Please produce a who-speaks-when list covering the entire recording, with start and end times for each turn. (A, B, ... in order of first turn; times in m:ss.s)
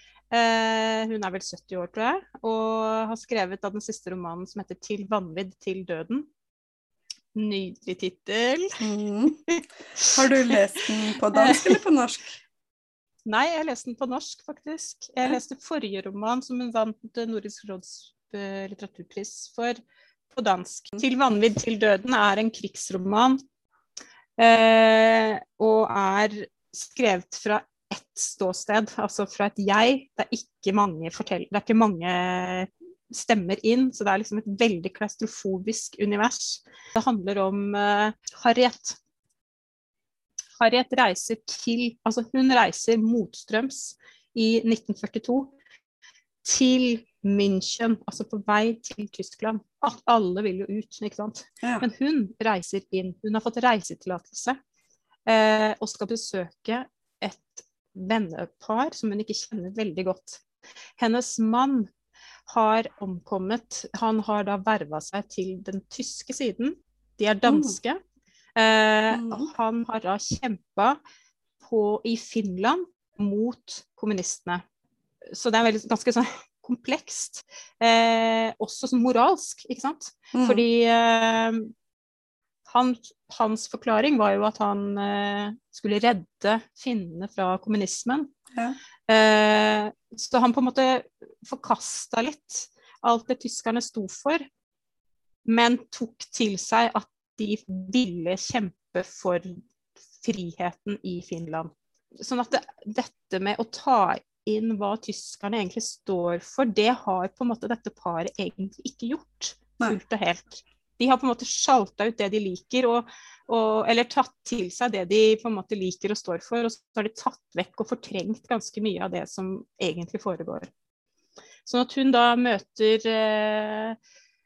0:00.3-0:06.3 A
0:07.3-0:08.8 A
0:08.8-0:09.4 B
0:09.5-0:10.6 A
0:10.1-0:12.4 B
0:11.3-0:11.8 A
0:13.2-0:19.8 A
0:20.3-0:23.4 A
0:24.4-0:39.0 A
0:40.6-0:45.5 A
0:46.4-0:54.6 A
0:51.6-0:51.9 B
0:55.3-1:00.4 A
1:01.0-1:01.9 A
1:02.5-1:08.0 A
1:07.5-1:07.8 B
1:08.6-1:11.0 A
1:09.1-1:09.5 B
1:11.6-1:14.6 A
1:15.3-1:21.7 A
1:20.3-1:20.6 B
1:22.7-1:28.3 A
1:29.1-1:34.4 A
1:35.4-1:39.6 A
1:40.2-2:00.7 A
2:01.6-2:04.0 A